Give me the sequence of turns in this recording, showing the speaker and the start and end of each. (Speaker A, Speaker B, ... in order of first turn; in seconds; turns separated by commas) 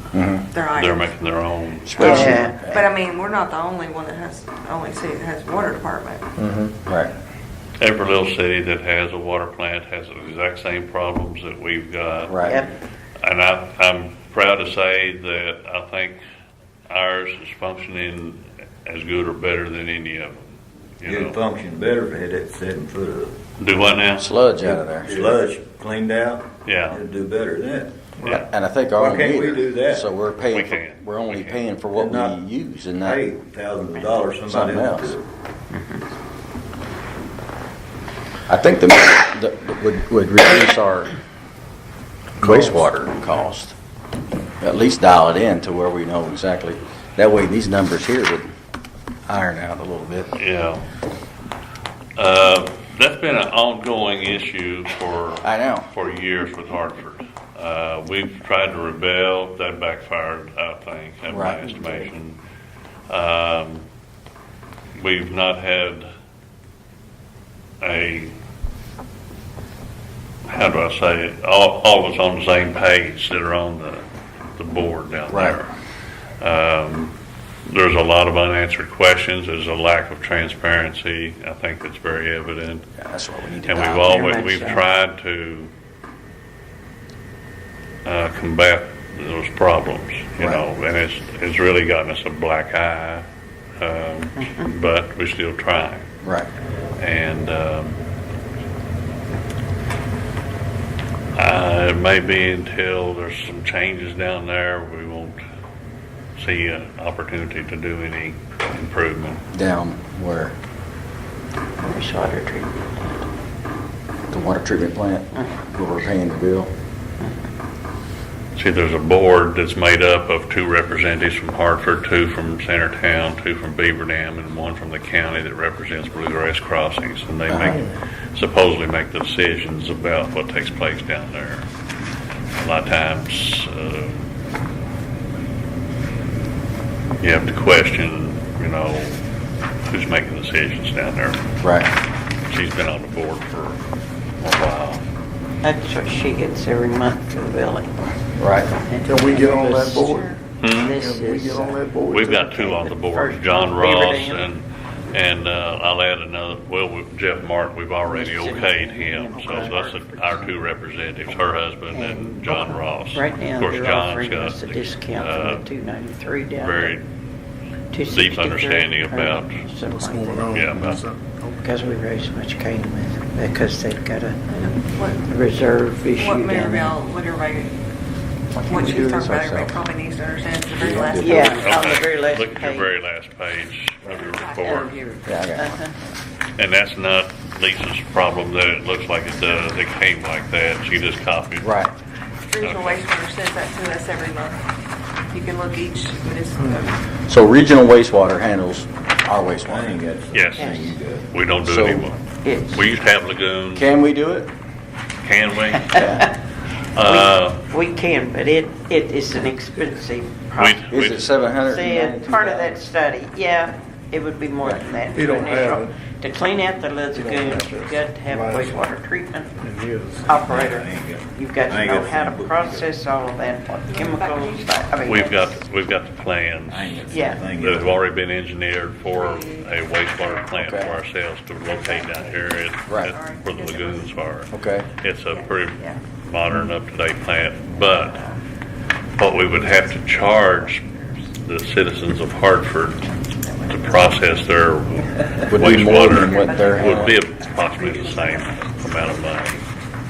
Speaker A: 0.1-0.5, Speaker B: 0.5-1.1, Speaker C: 0.7-2.4, Speaker A: 1.9-2.9, Speaker B: 1.9-6.3, Speaker D: 2.0-2.6, Speaker A: 6.4-7.1, Speaker C: 7.8-12.6, Speaker A: 12.3-12.6, Speaker D: 12.4-12.7, Speaker C: 13.2-16.2, Speaker C: 16.9-20.5, Speaker C: 21.0-21.4, Speaker E: 21.1-23.4, Speaker C: 23.6-24.3, Speaker A: 24.2-25.3, Speaker E: 24.6-27.9, Speaker C: 26.6-27.0, Speaker A: 28.2-33.2, Speaker E: 29.0-30.1, Speaker C: 30.5-31.7, Speaker E: 31.9-32.4, Speaker E: 33.0-35.2, Speaker A: 34.5-35.1, Speaker D: 35.7-36.0, Speaker A: 38.5-41.1, Speaker A: 42.4-43.8, Speaker A: 44.6-48.5, Speaker A: 49.3-50.3, Speaker C: 50.4-50.8, Speaker C: 52.2-62.4, Speaker A: 55.4-55.9, Speaker A: 61.3-61.6, Speaker C: 63.1-63.9, Speaker C: 65.0-66.1, Speaker C: 67.8-68.3, Speaker C: 70.5-74.0, Speaker C: 74.6-75.7, Speaker A: 75.3-75.6, Speaker C: 76.4-77.1, Speaker C: 77.7-82.9, Speaker A: 83.0-84.3, Speaker C: 83.7-85.7, Speaker D: 84.0-84.9, Speaker C: 88.0-93.2, Speaker A: 90.4-90.7, Speaker C: 93.8-96.1, Speaker D: 94.4-94.7, Speaker A: 96.2-96.5, Speaker C: 97.0-98.0, Speaker C: 101.3-105.4, Speaker C: 106.4-109.4, Speaker A: 109.5-110.5, Speaker D: 111.8-113.2, Speaker A: 114.3-116.7, Speaker D: 117.2-117.5, Speaker C: 118.5-131.7, Speaker A: 127.5-127.8, Speaker C: 132.6-134.3, Speaker C: 137.2-139.2, Speaker C: 139.9-141.4, Speaker A: 141.6-141.9, Speaker C: 142.5-143.8, Speaker C: 144.4-145.0, Speaker D: 145.6-148.0, Speaker A: 148.4-148.7, Speaker D: 148.7-154.5, Speaker F: 149.0-152.5, Speaker C: 150.6-151.0, Speaker C: 152.1-165.7, Speaker D: 158.1-159.9, Speaker F: 159.3-160.7, Speaker D: 161.9-167.0, Speaker C: 166.6-167.0, Speaker D: 167.9-170.6, Speaker C: 168.1-169.6, Speaker F: 169.9-171.9, Speaker C: 170.5-171.1, Speaker D: 171.6-174.4, Speaker B: 174.5-175.3, Speaker D: 175.2-177.0, Speaker B: 176.2-177.8, Speaker A: 178.5-179.8, Speaker B: 178.6-181.7, Speaker A: 180.8-181.8, Speaker D: 181.2-182.9, Speaker C: 181.5-185.0, Speaker B: 184.1-184.6, Speaker D: 184.6-186.0, Speaker A: 185.3-185.7, Speaker C: 186.6-191.7, Speaker A: 191.6-191.9, Speaker B: 192.5-194.6, Speaker C: 192.6-193.1, Speaker B: 195.3-197.0, Speaker A: 197.3-199.9, Speaker E: 199.7-201.2, Speaker C: 200.3-203.9, Speaker D: 200.6-201.0, Speaker A: 201.6-202.1, Speaker D: 202.4-202.8, Speaker A: 203.7-204.5, Speaker C: 205.2-206.3, Speaker A: 205.9-206.2, Speaker D: 205.9-206.3, Speaker C: 206.9-207.7, Speaker D: 207.0-210.9, Speaker C: 210.6-211.5, Speaker A: 210.9-212.8, Speaker D: 211.6-219.6, Speaker F: 214.7-216.0, Speaker F: 216.6-218.9, Speaker F: 219.6-220.5, Speaker D: 220.3-225.6, Speaker E: 220.4-222.9, Speaker B: 223.8-225.3, Speaker C: 225.1-238.2, Speaker E: 226.7-227.9, Speaker D: 227.1-227.5, Speaker B: 229.1-231.0, Speaker A: 230.5-230.9, Speaker B: 231.7-234.1, Speaker A: 232.9-233.1, Speaker A: 234.5-234.9, Speaker B: 235.3-236.0, Speaker B: 237.7-238.4, Speaker C: 239.2-240.8, Speaker B: 239.2-241.4, Speaker C: 241.4-243.1, Speaker B: 243.0-249.7, Speaker C: 243.7-249.6, Speaker A: 245.5-247.2